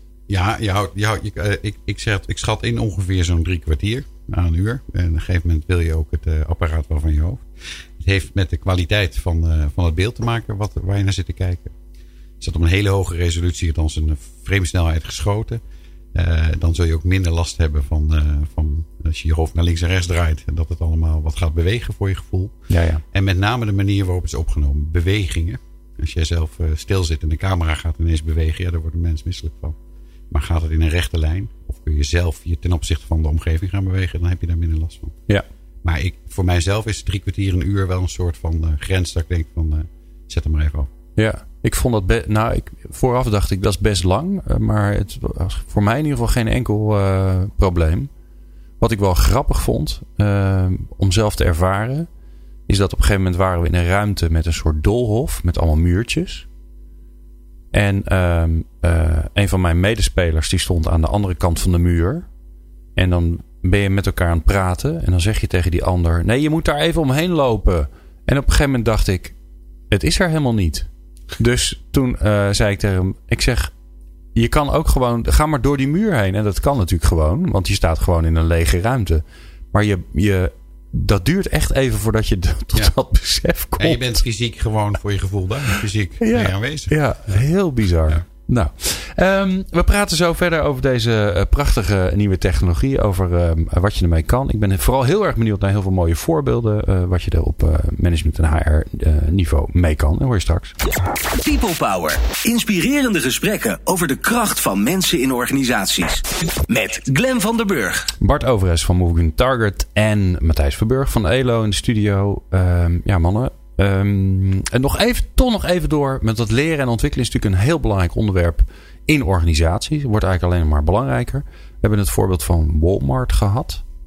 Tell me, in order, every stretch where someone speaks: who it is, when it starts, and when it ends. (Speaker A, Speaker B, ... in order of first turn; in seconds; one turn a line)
Speaker A: 0.3-7.5
Speaker A: 8.0-11.7
Speaker A: 12.4-15.6
Speaker A: 16.1-22.6
Speaker B: 22.7-23.0
Speaker A: 23.1-29.8
Speaker A: 30.3-35.2
Speaker A: 35.8-40.9
Speaker B: 41.2-48.1
Speaker B: 48.8-52.1
Speaker B: 52.7-56.5
Speaker B: 57.7-62.3
Speaker B: 63.0-69.3
Speaker B: 69.9-73.7
Speaker B: 74.3-84.2
Speaker A: 83.8-87.4
Speaker B: 86.2-100.7
Speaker C: 101.4-108.1
Speaker B: 108.2-123.8